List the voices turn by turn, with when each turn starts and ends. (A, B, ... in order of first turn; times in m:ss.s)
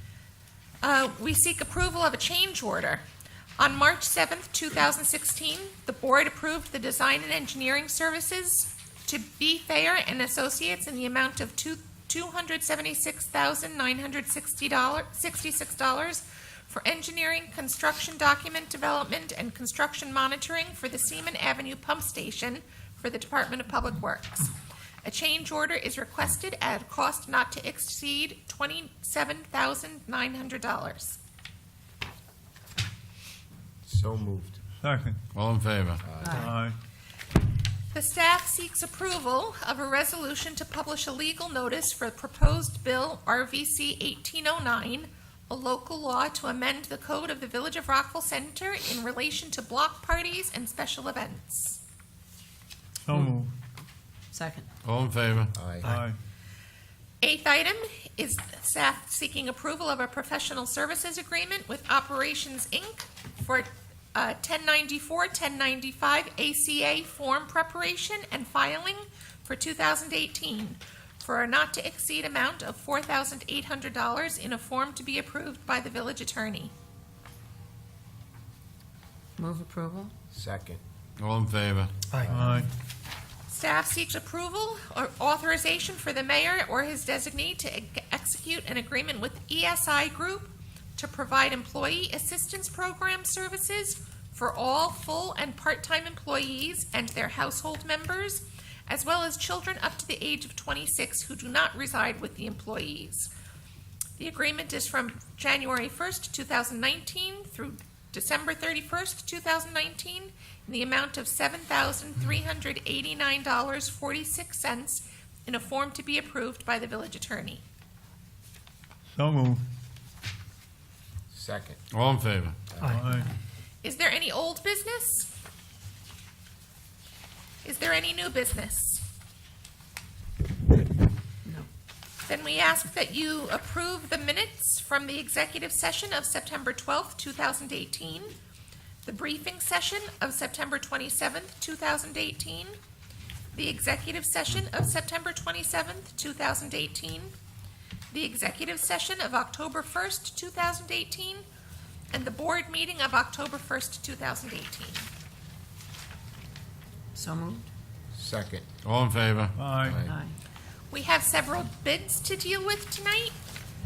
0:00.8-0:03.0 A
0:03.6-0:31.2 A
0:33.9-0:34.6 B
0:34.8-0:35.2 C
0:35.3-0:36.0 D
0:36.0-0:36.5 B
0:36.2-0:36.5 E
0:36.4-0:36.8 C
0:37.9-0:51.8 A
0:53.1-0:53.5 C
0:54.3-0:54.7 E
0:54.8-0:55.5 D
0:55.6-0:55.9 B
0:55.8-0:56.2 C
0:57.2-1:16.7 A
1:19.4-1:20.1 E
1:20.3-1:20.8 B
1:21.2-1:21.9 D
1:22.1-1:22.6 B
1:22.3-1:22.7 C
1:23.5-1:43.3 A
1:44.2-1:57.6 A
1:59.1-1:59.6 C
2:01.3-2:01.8 B
2:01.9-2:02.6 D
2:02.7-2:03.0 B
2:02.8-2:03.3 C
2:03.8-2:05.3 A
2:07.6-2:09.0 A
2:12.2-2:18.4 A
2:19.0-2:22.8 A
2:23.5-2:27.3 A
2:28.1-2:31.4 A
2:32.1-2:35.1 A
2:37.2-2:37.7 E
2:38.1-2:38.7 B
2:38.8-2:39.6 D
2:39.6-2:40.0 C
2:39.8-2:40.2 B
2:40.0-2:40.4 E
2:40.9-2:43.4 A